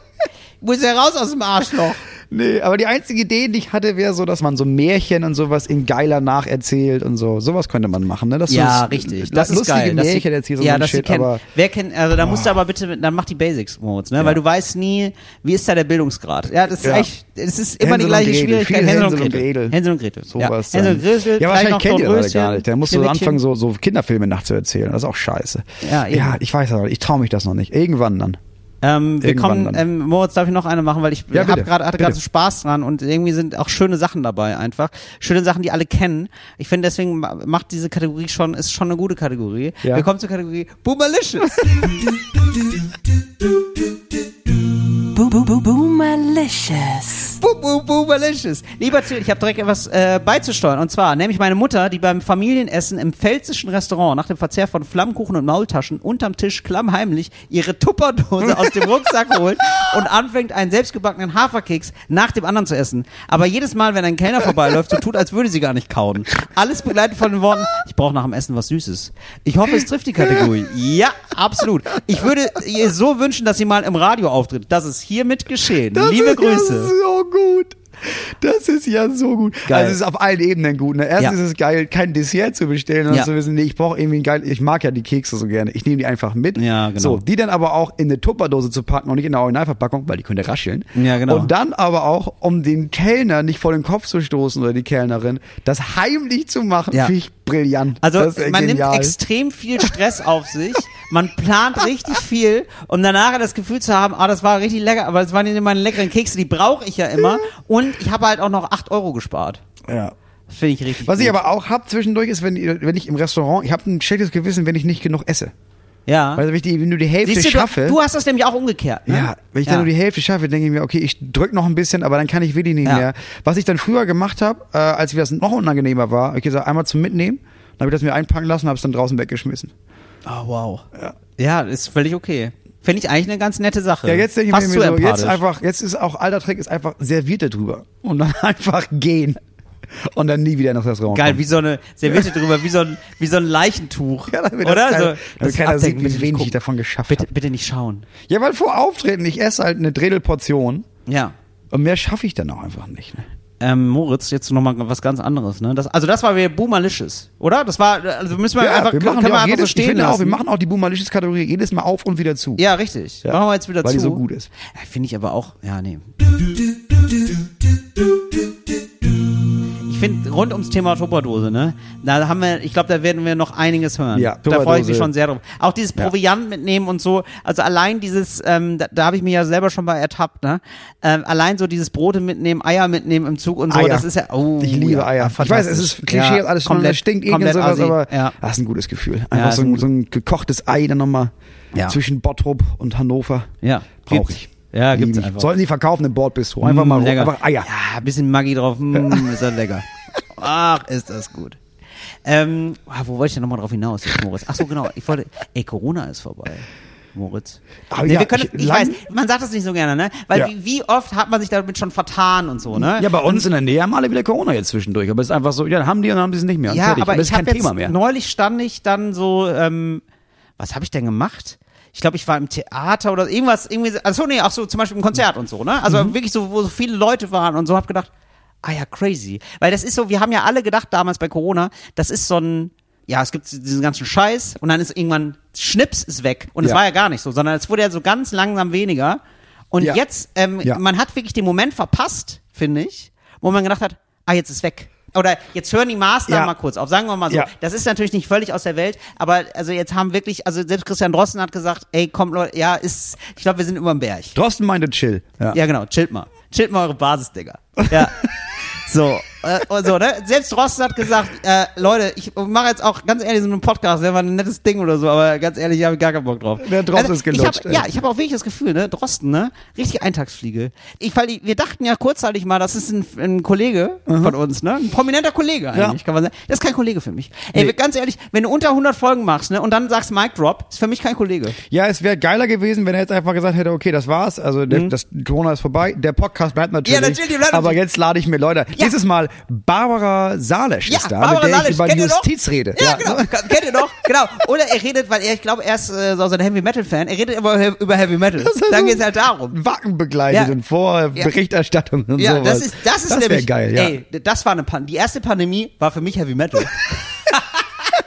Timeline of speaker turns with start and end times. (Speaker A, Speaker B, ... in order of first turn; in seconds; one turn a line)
Speaker A: 0.6-2.0
Speaker B: 2.3-11.4
Speaker A: 8.5-23.4
Speaker B: 12.1-12.6
Speaker B: 16.8-17.1
Speaker B: 17.8-19.8
Speaker B: 20.3-28.4
Speaker A: 25.8-26.4
Speaker A: 28.8-41.9
Speaker B: 29.2-29.8
Speaker B: 31.3-32.2
Speaker C: 45.0-47.4
Speaker A: 47.2-76.9
Speaker B: 58.5-58.9
Speaker B: 70.2-70.5
Speaker B: 75.9-99.2
Speaker A: 79.7-80.0
Speaker A: 86.5-87.2
Speaker A: 90.9-91.5
Speaker A: 98.0-109.6
Speaker B: 109.8-110.1
Speaker A: 110.5-111.4
Speaker B: 111.0-115.5
Speaker A: 116.1-116.4
Speaker B: 116.3-118.0
Speaker A: 117.2-119.9
Speaker B: 119.1-129.7
Speaker A: 130.2-130.8
Speaker A: 131.4-135.4
Speaker B: 134.0-139.4
Speaker B: 139.9-141.4
Speaker A: 141.1-146.5
Speaker B: 144.3-147.3
Speaker A: 147.1-148.1
Speaker B: 148.3-150.8
Speaker A: 151.1-151.3
Speaker B: 151.7-153.3
Speaker A: 153.6-160.4
Speaker B: 158.6-162.6
Speaker A: 162.6-166.6
Speaker B: 163.2-164.5
Speaker A: 169.8-188.3
Speaker B: 174.1-175.1
Speaker B: 183.7-184.1
Speaker B: 184.6-191.3
Speaker A: 189.3-189.8
Speaker B: 191.9-193.5
Speaker A: 193.6-195.5
Speaker B: 194.1-197.7
Speaker A: 196.6-201.6
Speaker B: 198.9-199.4
Speaker A: 202.2-213.4
Speaker B: 207.9-209.0
Speaker B: 212.7-217.9
Speaker A: 216.7-220.0
Speaker A: 220.6-228.1
Speaker B: 225.9-226.1
Speaker A: 228.6-239.2
Speaker A: 239.7-254.3
Speaker B: 246.3-246.5
Speaker B: 254.3-255.6
Speaker A: 255.5-281.6
Speaker B: 266.6-267.9
Speaker B: 274.1-274.3
Speaker B: 281.6-293.9
Speaker A: 286.8-287.8
Speaker A: 290.9-299.6
Speaker B: 298.4-303.9
Speaker A: 300.3-300.5
Speaker A: 302.2-307.6